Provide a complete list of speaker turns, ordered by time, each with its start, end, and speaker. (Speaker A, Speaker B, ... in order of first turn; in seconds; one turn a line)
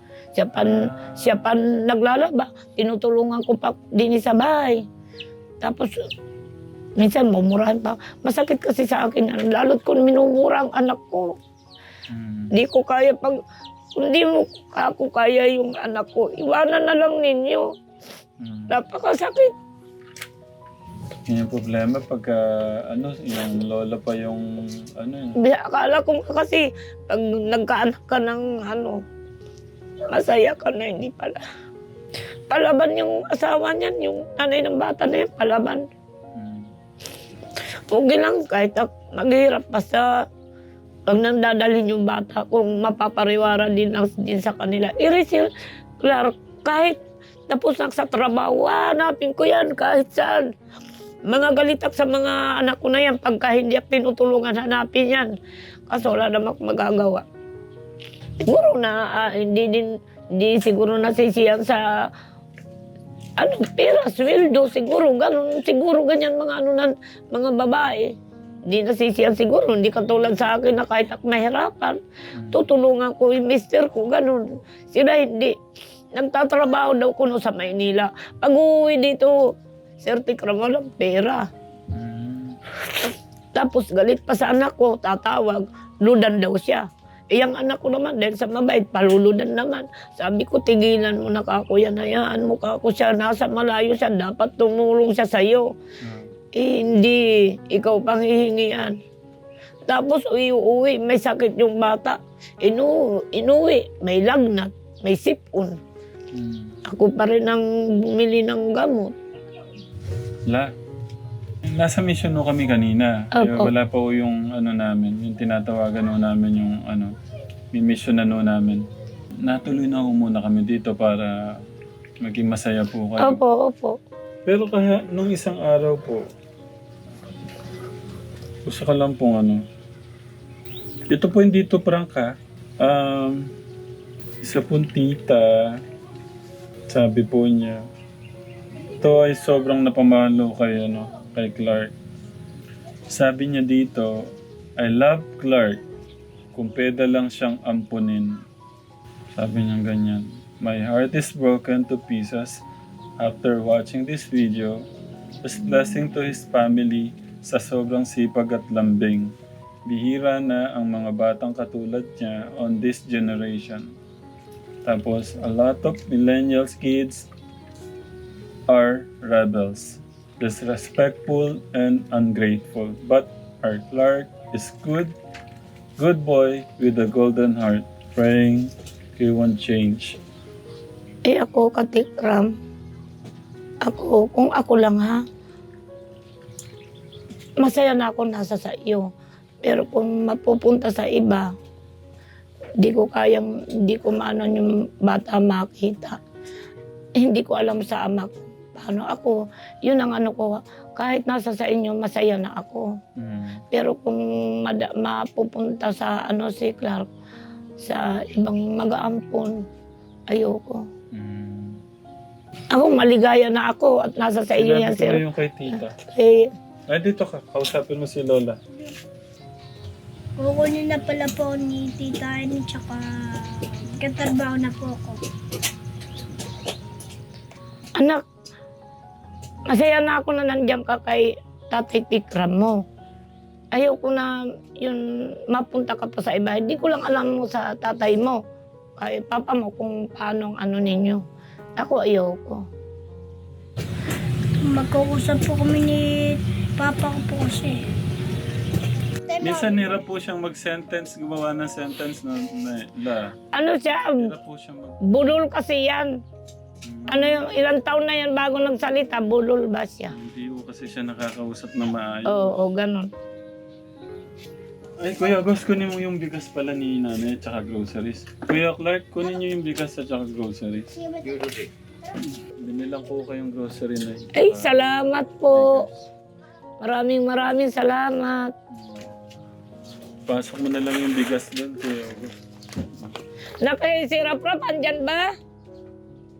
Speaker A: 0.3-4.8
Speaker B: 0.6-0.9
Speaker A: 5.6-6.1
Speaker A: 7.0-11.3
Speaker B: 12.1-12.5
Speaker A: 12.5-13.4
Speaker A: 13.9-17.7
Speaker B: 18.4-18.7
Speaker A: 18.7-19.5
Speaker B: 21.3-25.4
Speaker A: 25.4-29.0
Speaker A: 30.1-31.4
Speaker A: 32.5-35.8
Speaker B: 36.3-36.7
Speaker A: 37.9-40.1
Speaker A: 41.1-47.0
Speaker A: 47.5-50.5
Speaker A: 51.3-55.3
Speaker A: 55.9-57.2
Speaker B: 56.0-56.2
Speaker A: 58.4-62.1
Speaker A: 63.4-68.1
Speaker A: 68.7-72.0
Speaker B: 72.3-72.7
Speaker A: 72.5-75.6
Speaker A: 76.1-79.5
Speaker A: 80.0-81.5
Speaker B: 81.9-82.6
Speaker A: 83.5-95.7
Speaker B: 96.0-96.3
Speaker A: 96.5-99.0
Speaker A: 99.9-105.8
Speaker B: 106.3-106.8
Speaker A: 106.8-109.1
Speaker B: 110.5-110.7
Speaker B: 111.6-117.2
Speaker A: 113.3-113.7
Speaker B: 117.7-118.9
Speaker B: 119.4-121.6
Speaker B: 122.2-123.4
Speaker A: 123.2-124.0
Speaker B: 124.5-126.2
Speaker B: 128.6-129.6
Speaker B: 131.1-133.5
Speaker B: 134.4-135.8
Speaker B: 136.9-137.8
Speaker B: 139.0-141.9
Speaker B: 143.1-145.8
Speaker B: 146.5-148.4
Speaker B: 149.3-152.6
Speaker B: 153.2-154.8
Speaker B: 155.4-159.3
Speaker B: 159.8-163.9
Speaker B: 164.8-167.3
Speaker B: 168.7-175.2
Speaker B: 176.0-180.2
Speaker A: 181.2-182.5
Speaker A: 183.8-185.2
Speaker A: 187.6-189.1
Speaker A: 189.6-191.5
Speaker A: 192.8-196.2
Speaker A: 197.2-202.9
Speaker B: 203.2-203.6
Speaker A: 203.7-207.1
Speaker A: 207.8-209.6
Speaker A: 210.3-210.8
Speaker B: 211.1-211.8
Speaker A: 212.7-215.2
Speaker B: 214.6-215.9
Speaker A: 216.0-216.5
Speaker B: 216.9-218.6
Speaker C: 220.4-225.2
Speaker A: 228.0-228.2
Speaker A: 229.7-232.8
Speaker A: 233.7-238.4
Speaker A: 239.0-241.2
Speaker A: 241.8-242.6
Speaker C: 244.6-247.8
Speaker C: 249.3-250.0
Speaker B: 249.4-253.3
Speaker A: 253.5-254.3
Speaker B: 254.2-255.1
Speaker A: 255.0-256.2
Speaker B: 256.8-257.4
Speaker A: 257.1-260.1
Speaker B: 260.1-262.6
Speaker A: 262.3-263.1
Speaker B: 265.0-271.6
Speaker C: 270.9-271.6
Speaker B: 272.4-274.8
Speaker A: 274.3-275.8
Speaker B: 275.5-275.9
Speaker A: 276.8-278.5
Speaker B: 278.7-279.1
Speaker B: 280.3-283.2
Speaker A: 283.6-285.3